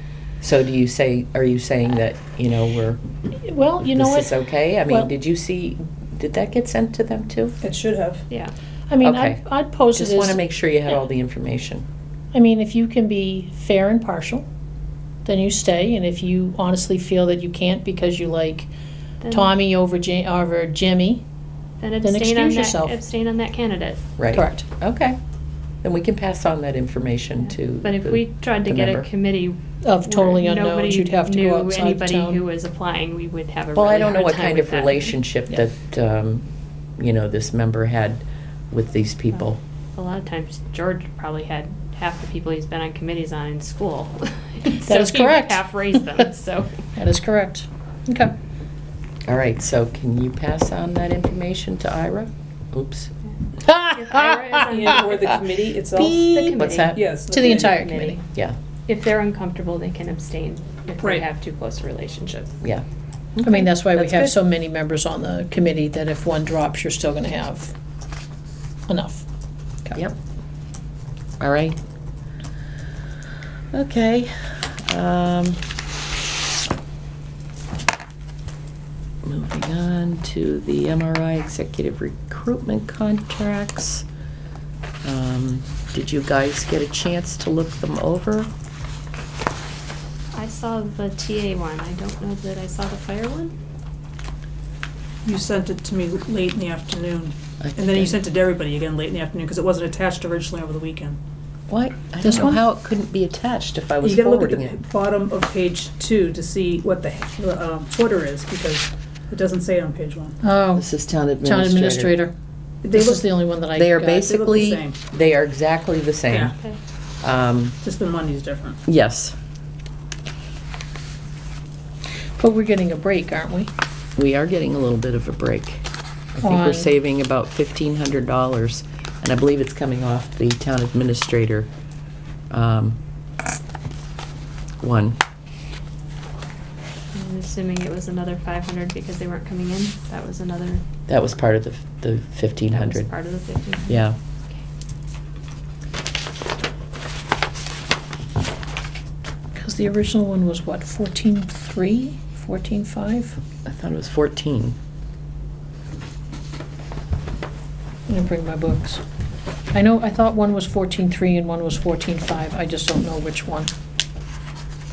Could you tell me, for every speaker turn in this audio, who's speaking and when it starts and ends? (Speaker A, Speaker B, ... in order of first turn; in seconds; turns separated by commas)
Speaker A: 0.4-3.0, Speaker B: 3.3-4.3, Speaker A: 3.9-7.6, Speaker C: 7.6-8.2, Speaker B: 8.9-10.4, Speaker A: 9.0-9.4, Speaker A: 9.9-11.8, Speaker B: 12.3-14.5, Speaker B: 15.2-18.7, Speaker D: 19.2-19.5, Speaker B: 19.3-21.2, Speaker D: 21.8-24.0, Speaker B: 22.0-22.9, Speaker A: 24.2-25.2, Speaker B: 24.3-24.7, Speaker A: 25.8-29.1, Speaker D: 27.8-35.1, Speaker B: 29.8-32.4, Speaker A: 33.8-39.6, Speaker D: 40.0-46.7, Speaker B: 44.8-46.2, Speaker B: 47.0-48.3, Speaker A: 49.3-53.1, Speaker B: 53.6-55.0, Speaker D: 53.9-55.4, Speaker C: 54.5-57.9, Speaker D: 56.1-58.2, Speaker A: 56.3-57.0, Speaker B: 57.3-58.2, Speaker D: 58.9-62.5, Speaker A: 63.4-64.3, Speaker B: 63.4-67.7, Speaker B: 68.9-69.3, Speaker A: 71.4-71.8, Speaker A: 73.7-75.6, Speaker A: 79.2-84.1, Speaker A: 85.0-88.5, Speaker D: 90.3-93.5, Speaker C: 95.2-101.2, Speaker A: 97.6-98.2, Speaker A: 101.7-104.7, Speaker B: 102.2-102.6, Speaker C: 104.0-110.4, Speaker B: 110.4-110.9, Speaker A: 110.8-112.2, Speaker B: 111.4-112.3, Speaker C: 112.8-113.6, Speaker B: 112.9-114.2, Speaker A: 113.8-116.5, Speaker C: 114.1-115.0, Speaker C: 116.3-116.5, Speaker A: 117.2-117.8, Speaker C: 117.8-118.8, Speaker A: 118.9-119.3, Speaker B: 122.4-123.7, Speaker A: 124.2-131.7, Speaker B: 126.4-126.9, Speaker A: 132.5-133.0, Speaker A: 134.8-135.2, Speaker D: 137.1-140.8, Speaker A: 141.1-143.1, Speaker D: 142.7-144.6, Speaker A: 143.9-144.2, Speaker B: 149.6-153.4, Speaker A: 153.6-154.8, Speaker B: 158.1-159.0, Speaker B: 159.7-163.7